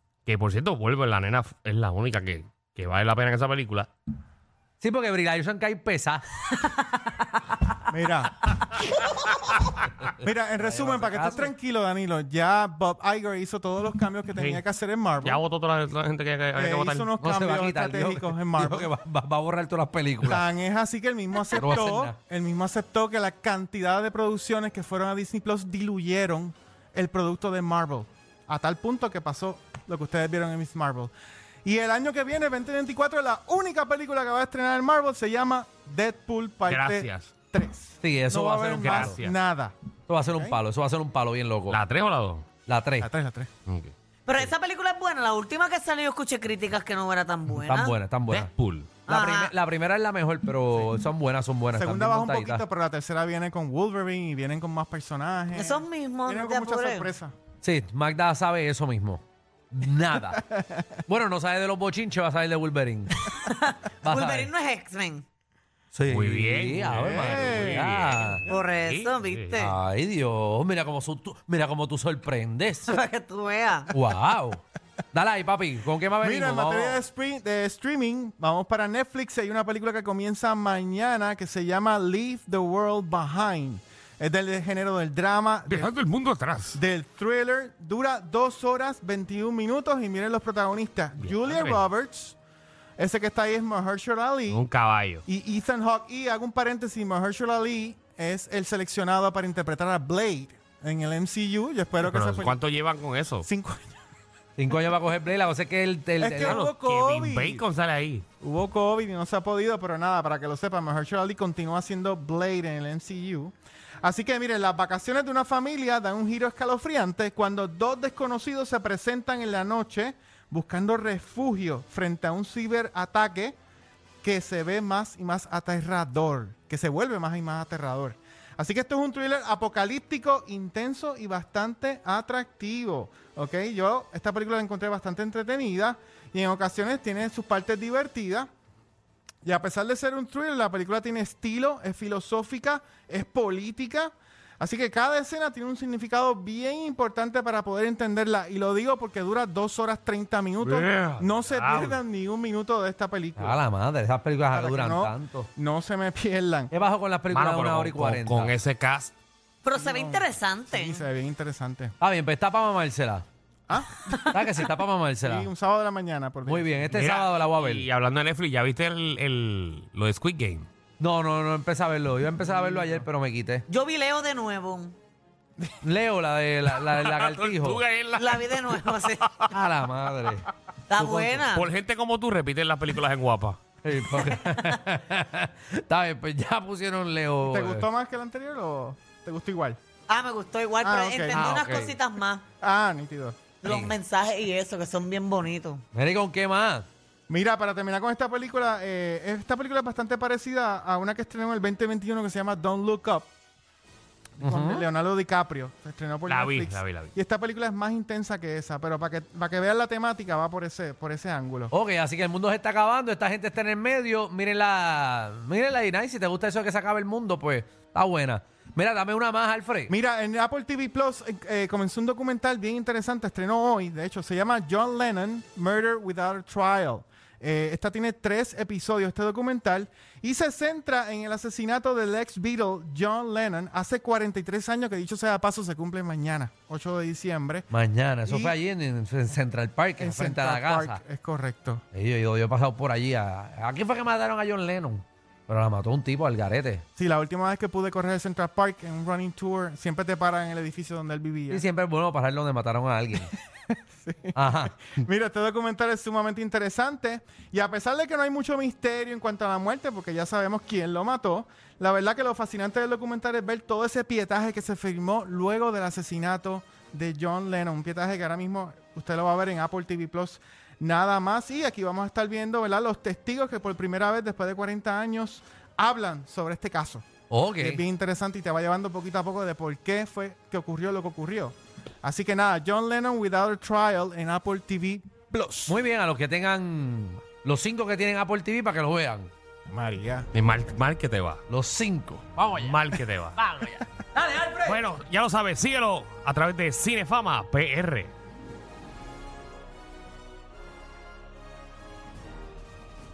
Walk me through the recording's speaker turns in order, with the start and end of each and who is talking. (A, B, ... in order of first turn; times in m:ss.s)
0:00.3-0:03.9 A
0:04.8-0:06.2 B
0:07.8-0:08.5 C
0:10.2-0:15.4 C
0:10.6-0:11.5 B
0:14.4-0:14.6 A
0:15.2-0:17.1 A
0:16.6-0:18.9 C
0:17.2-0:20.5 B
0:20.2-0:31.1 C
0:21.5-0:22.2 B
0:31.6-0:40.6 C
0:36.7-0:37.3 A
0:38.0-0:39.2 B
0:38.8-0:39.4 A
0:40.1-0:41.8 B
0:41.7-0:42.5 A
0:42.7-0:43.1 B
0:43.0-0:43.5 C
0:43.7-0:44.5 A
0:44.3-0:48.0 D
0:47.6-0:48.5 B
0:48.3-0:48.9 A
0:49.1-0:49.5 D
0:49.1-0:52.6 B
0:51.7-0:57.3 C
0:55.5-0:57.1 D
0:57.6-1:00.4 B
1:00.5-1:00.8 C
1:01.1-1:03.3 B
1:03.4-1:05.2 D
1:04.0-1:04.5 B
1:05.9-1:08.4 B
1:06.1-1:09.6 A
1:07.0-1:07.9 C
1:08.5-1:09.7 D
1:09.6-1:12.9 B
1:12.9-1:13.9 D
1:13.9-1:14.6 B
1:15.1-1:17.0 B
1:16.2-1:25.9 C
1:25.7-1:26.8 A
1:26.7-1:32.4 C
1:31.2-1:31.8 A
1:33.0-1:34.6 C
1:34.5-1:35.2 A
1:35.3-1:42.6 C
1:42.0-1:43.5 A
1:43.4-1:44.0 C
1:44.6-1:46.7 B
1:46.2-1:47.7 C
1:46.5-1:48.2 A
1:48.4-2:03.6 C
2:04.2-2:18.5 C
2:19.4-2:33.6 C
2:30.6-2:32.0 A
2:33.4-2:35.5 B
2:34.5-2:36.7 C
2:36.7-2:38.6 B
2:37.3-2:39.1 A
2:39.6-2:41.0 D
2:39.7-2:42.0 C
2:42.0-2:43.2 B
2:43.7-2:44.6 C
2:44.2-2:45.5 B
2:45.2-2:46.9 C
2:46.4-2:47.9 B
2:46.9-2:50.7 A
2:51.0-2:53.6 B
2:52.4-2:53.0 C
2:53.7-2:55.0 D
2:55.8-2:57.8 B
2:56.9-2:59.5 A
2:58.2-2:59.2 D
2:59.5-3:01.4 B
3:00.9-3:01.7 D
3:01.5-3:03.6 A
3:03.8-3:07.9 B
3:07.4-3:09.8 C
3:10.1-3:12.4 D
3:10.8-3:11.5 C
3:11.3-3:12.0 B
3:12.6-3:13.4 C
3:13.6-3:15.8 D
3:13.6-3:13.9 B
3:15.9-3:16.9 B
3:17.3-3:23.3 C
3:24.4-3:31.7 C
3:24.4-3:24.9 B
3:26.3-3:27.1 A
3:31.7-3:39.9 B
3:39.9-3:57.7 C
3:57.7-4:01.0 B
3:58.2-3:58.6 C
4:00.0-4:01.8 C
4:01.9-4:06.8 B
4:07.0-4:11.6 C
4:11.5-4:13.3 B
4:13.7-4:37.0 C
4:14.3-4:14.8 B
4:37.3-4:37.8 B
4:37.6-4:45.8 C
4:45.7-4:49.3 B
4:49.7-4:50.3 C
4:50.3-4:51.4 A
4:51.5-4:52.8 B
4:52.6-4:53.4 A
4:53.4-4:54.8 B
4:54.6-4:58.1 A